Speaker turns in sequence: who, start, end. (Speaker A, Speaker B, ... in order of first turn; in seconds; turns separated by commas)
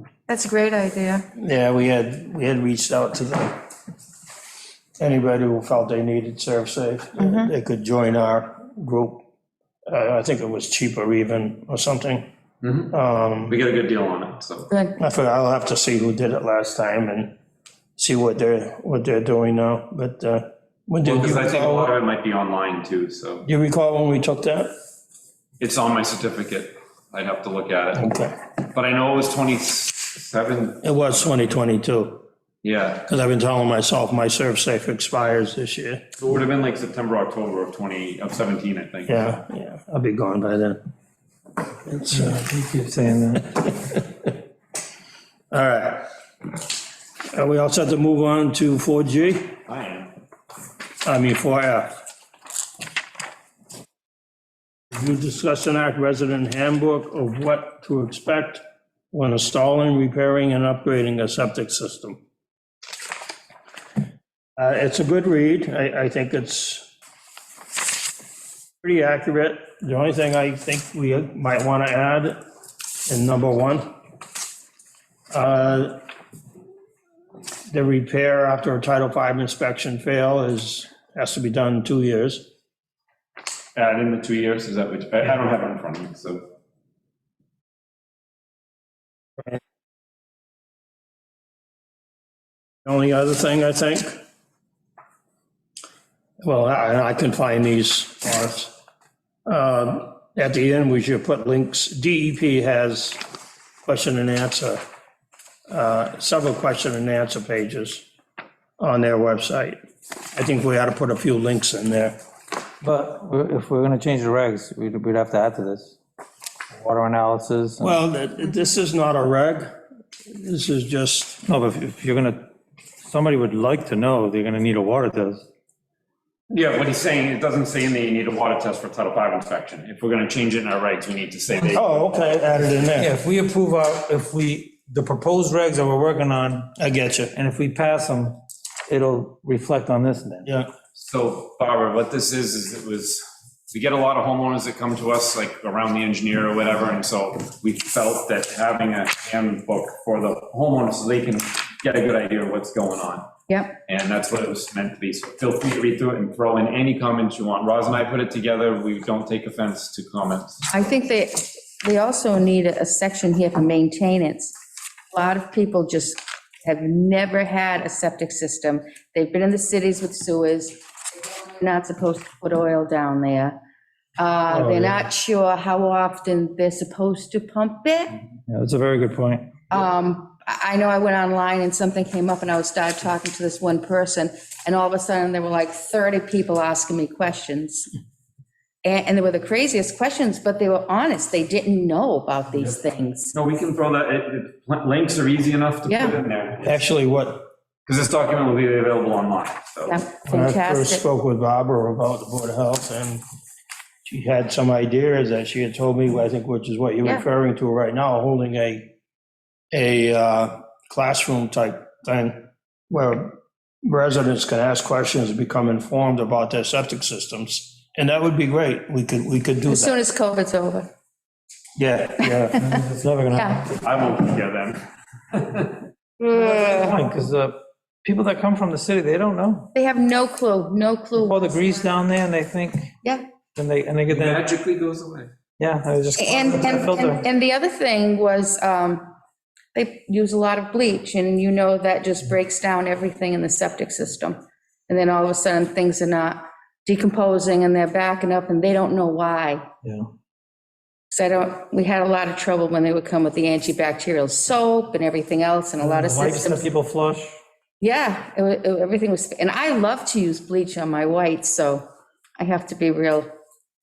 Speaker A: 0.3-1.2, Speaker B: 1.4-3.6, Speaker B: 5.0-9.2, Speaker A: 7.2-7.5, Speaker B: 9.9-12.3, Speaker C: 12.6-12.9, Speaker B: 12.9-13.5, Speaker C: 13.5-14.7, Speaker A: 14.7-15.0, Speaker B: 15.0-17.3, Speaker B: 18.0-21.9, Speaker C: 21.0-23.4, Speaker B: 23.4-24.7, Speaker C: 25.6-28.1, Speaker B: 27.9-28.3, Speaker C: 28.7-30.8, Speaker B: 30.8-32.2, Speaker C: 32.6-33.0, Speaker B: 33.0-36.0, Speaker C: 36.2-39.4, Speaker B: 39.1-40.8, Speaker B: 41.9-42.5, Speaker D: 42.1-43.7, Speaker B: 45.5-46.0, Speaker B: 47.3-49.6, Speaker C: 49.7-50.1, Speaker B: 51.0-51.9, Speaker B: 54.9-62.2, Speaker B: 64.6-66.8, Speaker B: 68.8-72.4, Speaker B: 73.1-73.9, Speaker B: 75.3-76.0, Speaker B: 77.7-82.5, Speaker C: 83.8-86.4, Speaker B: 92.8-94.2, Speaker B: 96.4-98.7, Speaker B: 99.5-103.2, Speaker B: 103.8-104.8, Speaker B: 105.7-108.0, Speaker B: 108.8-109.8, Speaker B: 110.3-112.2, Speaker D: 112.8-116.0, Speaker D: 116.7-118.0, Speaker B: 117.8-119.7, Speaker B: 120.3-121.4, Speaker D: 121.4-122.5, Speaker D: 123.0-125.5, Speaker C: 126.5-132.0, Speaker B: 131.7-133.1, Speaker D: 133.0-136.7, Speaker B: 136.8-137.3, Speaker D: 137.3-140.5, Speaker C: 140.9-153.3, Speaker A: 153.5-153.8, Speaker C: 153.8-160.7, Speaker A: 160.7-164.6, Speaker A: 165.1-173.6, Speaker A: 174.2-178.2, Speaker D: 174.7-175.0, Speaker D: 178.5-179.5, Speaker A: 179.7-187.9, Speaker A: 188.8-193.3, Speaker C: 193.3-196.8, Speaker A: 195.9-196.1, Speaker B: 196.7-197.4, Speaker C: 197.9-200.0, Speaker A: 199.9-201.0, Speaker B: 200.3-203.2, Speaker B: 204.1-208.9, Speaker B: 209.7-220.0, Speaker A: 219.7-220.9, Speaker B: 221.8-222.7, Speaker D: 222.6-223.7, Speaker A: 223.3-223.7, Speaker C: 223.8-225.9, Speaker A: 226.2-227.0, Speaker D: 226.3-229.7, Speaker A: 229.7-231.8, Speaker D: 231.2-232.9, Speaker D: 233.6-234.4, Speaker C: 234.1-235.3, Speaker D: 235.6-237.2, Speaker A: 236.2-239.1, Speaker A: 239.8-249.6, Speaker A: 251.1-256.6, Speaker D: 255.8-257.4, Speaker A: 257.8-261.8, Speaker A: 262.4-263.3